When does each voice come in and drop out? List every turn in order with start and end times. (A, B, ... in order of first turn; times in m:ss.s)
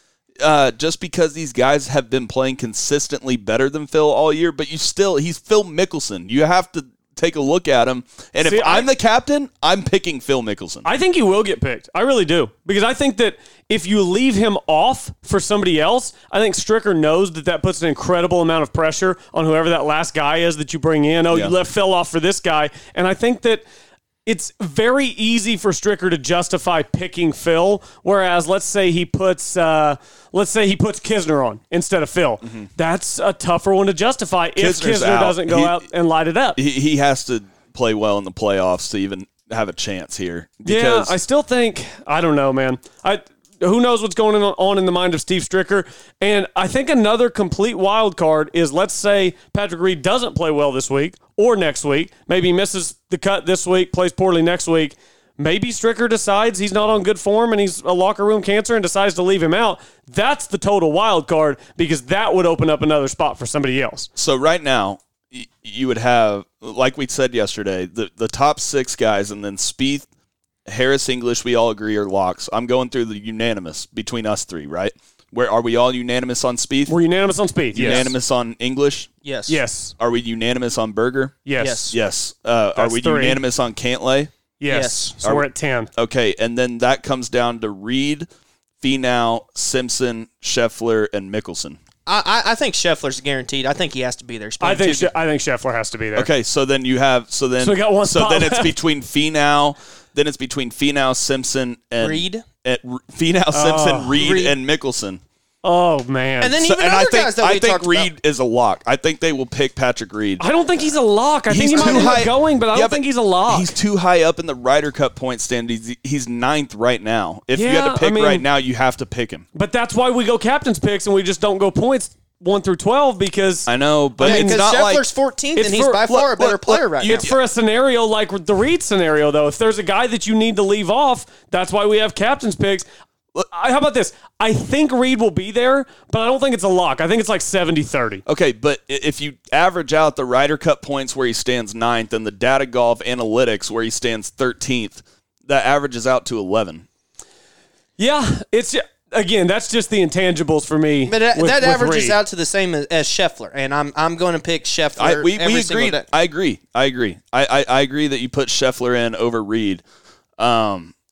0:00.4-0:10.9 A
0:08.4-0:08.9 B
0:10.8-0:23.6 B
0:24.3-0:36.6 B
0:34.6-0:35.9 A
0:36.6-0:41.2 A
0:40.6-1:04.1 B
1:04.2-1:10.1 A
1:10.7-1:17.0 A
1:16.9-1:18.1 B
1:17.7-1:19.1 A
1:19.2-1:19.6 C
1:19.5-1:19.9 B
1:20.0-1:24.3 A
1:21.5-1:21.9 B
1:21.6-1:22.0 C
1:22.8-1:23.4 B
1:24.6-1:25.9 B
1:24.7-1:25.1 C
1:25.2-1:28.3 A
1:28.8-1:31.8 A
1:32.1-1:35.1 C
1:34.6-1:36.3 B
1:36.2-1:45.2 A
1:37.6-1:38.8 B
1:42.0-1:42.4 C
1:43.5-1:44.2 B
1:44.2-1:44.6 C
1:45.6-1:46.6 B
1:46.4-1:48.1 C
1:46.6-1:50.4 A
1:50.4-1:53.7 B
1:51.5-1:59.5 A
1:51.7-1:52.2 C
1:57.5-1:58.5 B
1:59.6-2:03.7 B
2:03.7-2:05.0 A
2:04.2-2:04.6 B
2:04.2-2:07.3 C
2:05.6-2:06.0 B
2:06.1-2:07.4 A
2:07.1-2:12.9 B
2:13.5-2:18.2 B
2:18.3-2:26.8 A
2:28.0-2:32.2 B
2:31.1-2:36.0 C
2:35.0-2:39.8 A
2:40.4-2:40.9 A